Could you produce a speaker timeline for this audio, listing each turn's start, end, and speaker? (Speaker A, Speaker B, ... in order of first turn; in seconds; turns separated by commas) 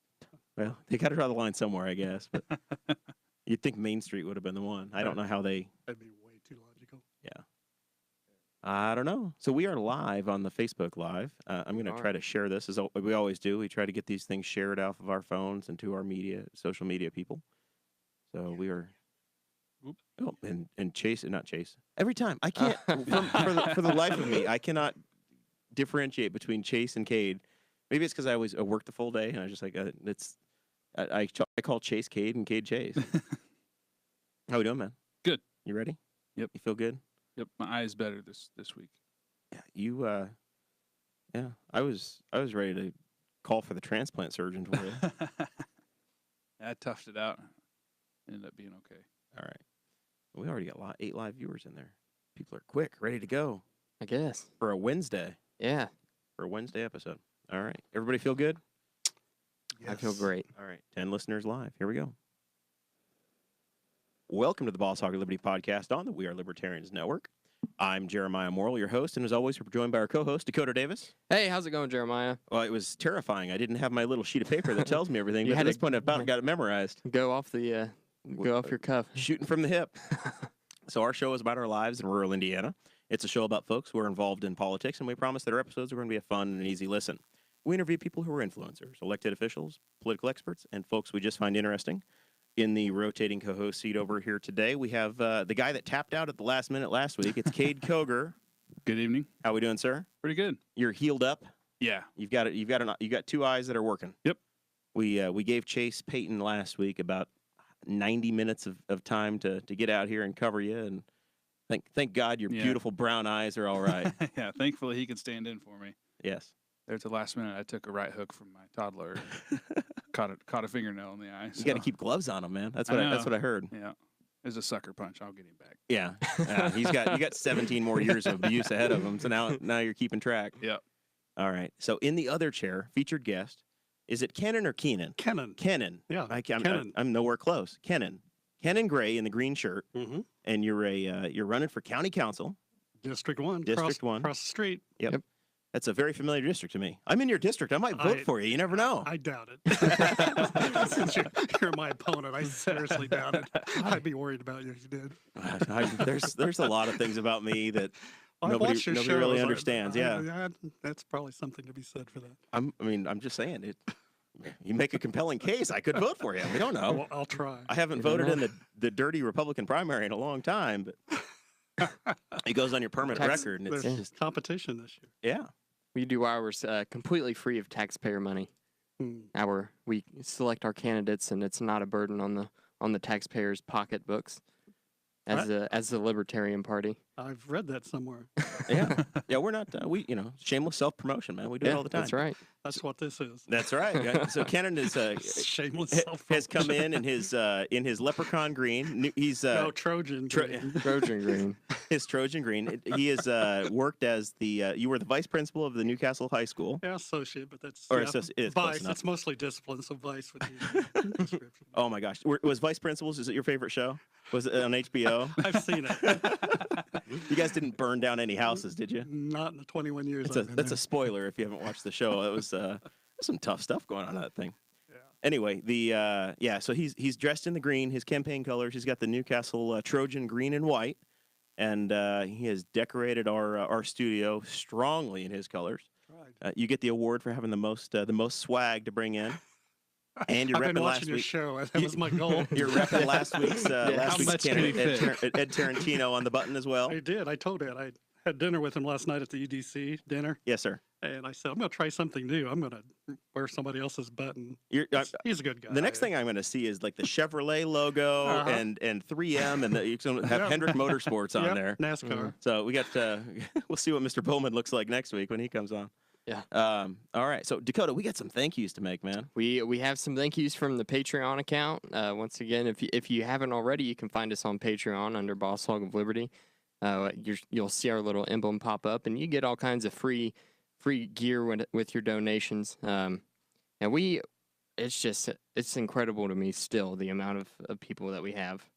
Speaker A: 0.6-2.4, Speaker B: 2.5-3.0, Speaker A: 3.5-5.7, Speaker C: 5.9-7.0, Speaker A: 8.6-17.4, Speaker D: 11.7-12.1, Speaker A: 18.3-18.9, Speaker A: 20.2-25.0, Speaker D: 22.6-23.7, Speaker A: 25.7-30.4, Speaker A: 31.0-33.0, Speaker A: 34.5-35.0, Speaker A: 35.6-36.0, Speaker A: 36.5-37.0, Speaker B: 37.4-38.9, Speaker A: 39.5-40.3, Speaker A: 41.3-45.0, Speaker B: 45.0-45.7, Speaker B: 46.6-47.5, Speaker B: 48.3-49.0, Speaker A: 49.3-49.6, Speaker A: 50.3-53.6, Speaker D: 54.0-54.5, Speaker A: 54.6-55.4, Speaker D: 55.6-55.9, Speaker A: 56.4-58.6, Speaker C: 59.8-60.1, Speaker D: 59.8-60.5, Speaker A: 60.5-62.1, Speaker A: 64.3-67.3, Speaker A: 67.8-71.1, Speaker D: 71.3-72.4, Speaker A: 72.5-77.0, Speaker D: 75.4-76.3, Speaker D: 77.0-79.3, Speaker A: 78.4-80.0, Speaker D: 80.2-80.5, Speaker A: 80.9-92.0, Speaker A: 92.6-98.4, Speaker B: 98.8-99.3, Speaker A: 99.4-100.1, Speaker B: 100.2-100.6, Speaker A: 100.8-101.5, Speaker B: 101.8-102.1, Speaker A: 102.2-104.2, Speaker A: 105.0-107.3, Speaker A: 107.9-111.0, Speaker A: 111.7-114.1, Speaker B: 112.5-112.8, Speaker B: 113.8-116.0, Speaker A: 116.2-116.5, Speaker B: 116.9-119.5, Speaker B: 120.1-121.9, Speaker A: 121.6-123.7, Speaker B: 122.9-125.8, Speaker A: 125.9-130.6, Speaker D: 126.3-128.7, Speaker A: 131.4-139.9, Speaker C: 135.2-136.9, Speaker C: 139.9-140.3, Speaker A: 140.4-142.6, Speaker C: 143.0-144.9, Speaker A: 143.7-144.3, Speaker A: 145.7-149.1, Speaker C: 147.9-156.4, Speaker B: 153.0-153.9, Speaker A: 155.4-160.3, Speaker C: 158.4-162.4, Speaker A: 162.5-163.8, Speaker A: 164.4-167.1, Speaker C: 166.9-167.7, Speaker A: 167.7-170.9, Speaker D: 167.9-168.4, Speaker C: 171.8-172.1, Speaker A: 172.4-174.0, Speaker D: 173.1-174.1, Speaker C: 173.4-175.1, Speaker A: 175.2-175.5, Speaker D: 175.9-178.5, Speaker C: 179.0-179.3, Speaker D: 179.3-184.4, Speaker D: 185.3-187.0, Speaker C: 187.2-188.3, Speaker A: 188.7-192.8, Speaker D: 191.6-192.4, Speaker C: 192.6-193.5, Speaker A: 193.5-199.7, Speaker D: 193.9-194.3, Speaker C: 195.2-197.0, Speaker C: 199.5-201.4, Speaker A: 200.3-200.8, Speaker D: 200.8-201.6, Speaker A: 201.9-206.8, Speaker C: 206.8-211.8, Speaker A: 207.9-209.0, Speaker A: 211.7-219.1, Speaker C: 215.4-216.6, Speaker C: 219.0-220.8, Speaker A: 220.2-224.6, Speaker A: 225.2-231.0, Speaker A: 231.6-235.9, Speaker C: 236.1-236.4, Speaker A: 236.4-239.4, Speaker A: 240.3-247.0, Speaker C: 240.5-243.7, Speaker D: 242.9-244.7, Speaker B: 244.0-245.2, Speaker C: 244.8-246.0, Speaker C: 246.9-250.4, Speaker A: 250.5-250.8, Speaker C: 251.0-256.1, Speaker A: 254.7-261.8, Speaker C: 258.2-258.7, Speaker C: 260.3-262.3, Speaker D: 262.0-262.3, Speaker A: 262.4-265.9, Speaker A: 266.5-269.3, Speaker D: 269.4-276.3, Speaker D: 276.8-283.2, Speaker D: 283.8-284.2, Speaker D: 284.8-288.7